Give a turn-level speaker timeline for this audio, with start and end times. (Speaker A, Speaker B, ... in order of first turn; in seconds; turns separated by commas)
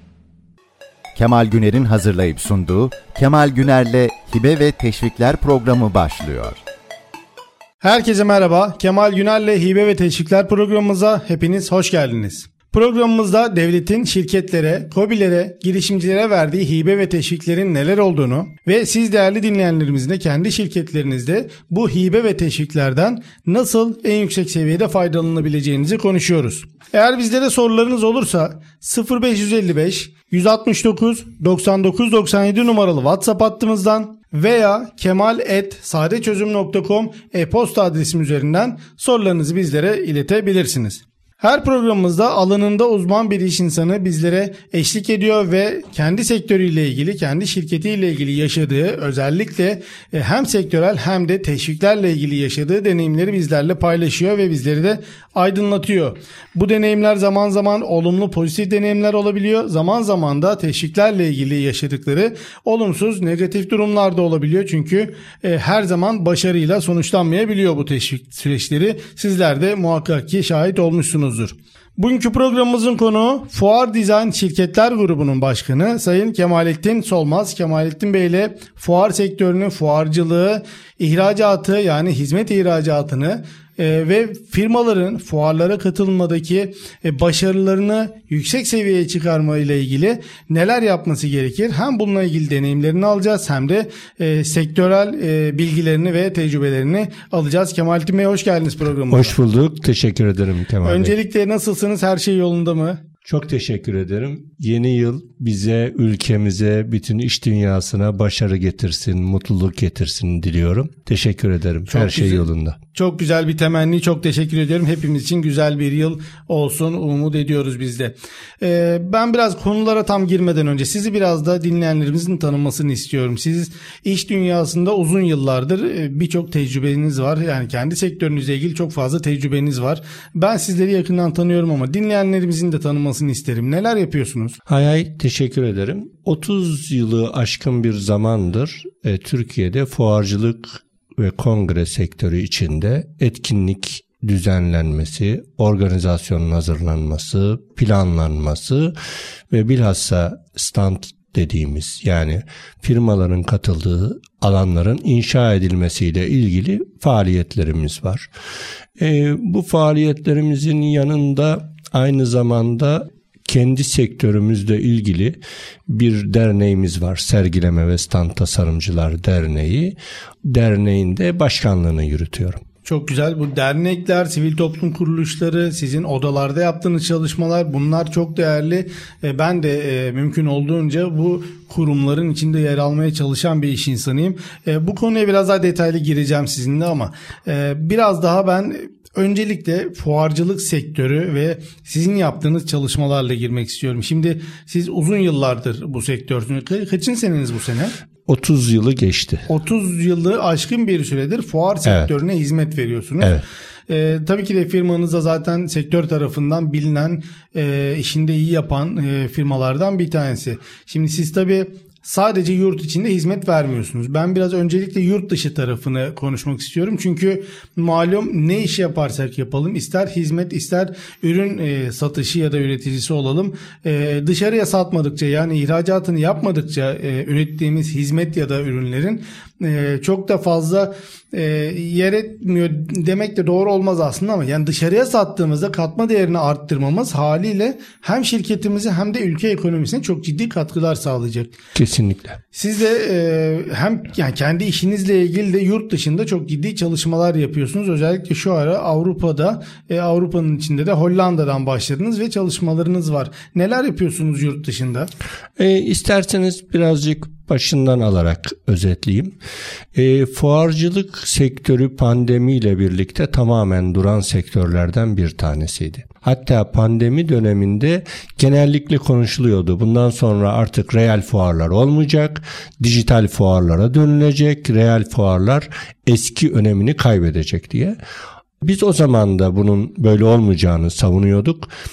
Speaker A: 1.1-6.6, Speaker B: 7.8-99.4, Speaker C: 99.1-101.1, Speaker B: 100.8-103.0, Speaker C: 103.2-112.8, Speaker B: 111.9-134.6, Speaker C: 134.7-148.9, Speaker C: 149.5-158.3, Speaker C: 159.0-172.6, Speaker B: 172.8-197.9, Speaker C: 198.3-199.5, Speaker B: 199.5-203.3, Speaker B: 203.9-241.5, Speaker C: 241.8-242.4, Speaker B: 242.5-255.1, Speaker C: 255.6-259.3, Speaker C: 259.9-278.0, Speaker C: 278.6-281.7